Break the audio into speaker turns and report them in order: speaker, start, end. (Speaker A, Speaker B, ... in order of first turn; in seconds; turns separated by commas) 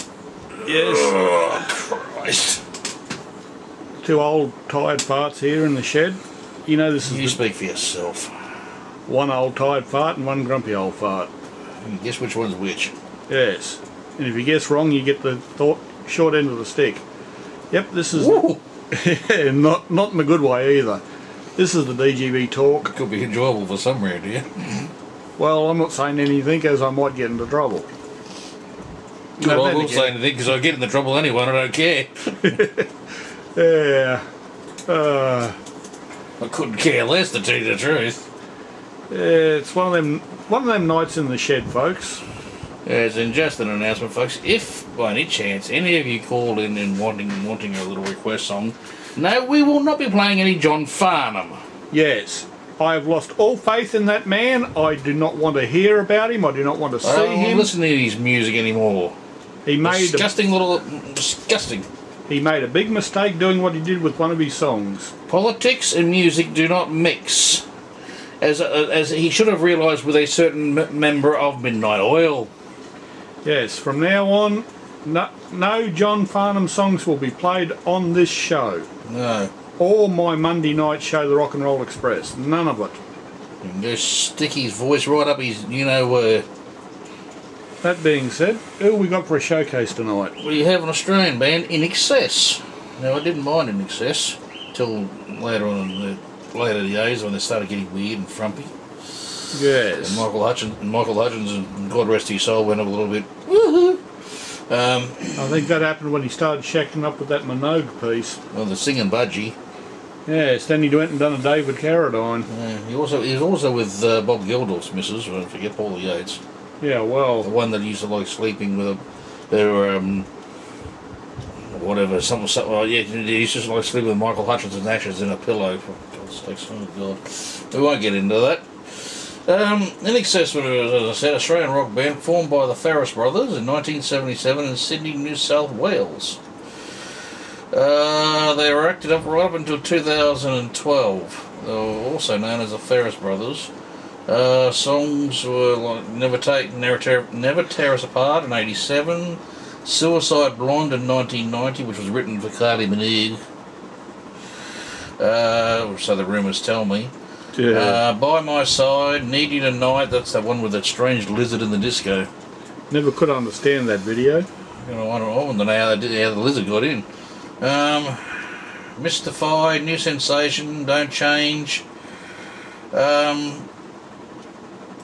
Speaker A: 0.6-1.2, Speaker B: 0.7-2.6, Speaker A: 4.0-7.4, Speaker B: 7.0-8.3, Speaker A: 9.1-11.3, Speaker B: 11.8-12.9, Speaker A: 13.3-17.0, Speaker A: 17.7-21.0, Speaker B: 18.1-18.6, Speaker A: 21.6-22.9, Speaker B: 22.8-24.9, Speaker A: 25.4-27.9, Speaker A: 29.4-30.1, Speaker B: 29.4-32.4, Speaker A: 32.4-32.9, Speaker A: 33.5-34.2, Speaker A: 34.9-35.6, Speaker B: 36.4-38.3, Speaker A: 39.1-42.2, Speaker B: 42.9-51.6, Speaker A: 51.9-57.7, Speaker B: 57.0-59.2, Speaker A: 59.7-60.3, Speaker B: 59.8-61.9, Speaker A: 62.3-65.1, Speaker B: 65.3-67.6, Speaker B: 68.4-72.5, Speaker A: 73.4-78.9, Speaker B: 79.1-79.5, Speaker A: 79.8-83.0, Speaker B: 83.6-86.5, Speaker A: 87.8-90.3, Speaker B: 90.4-99.3, Speaker A: 99.5-100.3, Speaker B: 100.0-105.7, Speaker A: 105.4-108.4, Speaker B: 108.5-109.6, Speaker A: 110.3-112.5, Speaker B: 112.5-116.4, Speaker A: 116.8-117.5, Speaker B: 117.4-120.3, Speaker B: 121.7-136.4, Speaker B: 137.7-143.7, Speaker B: 144.3-153.4, Speaker B: 155.2-157.1, Speaker A: 157.6-158.0, Speaker B: 157.7-162.3, Speaker A: 162.9-164.5, Speaker B: 164.8-167.1, Speaker B: 167.6-171.8, Speaker B: 172.9-173.7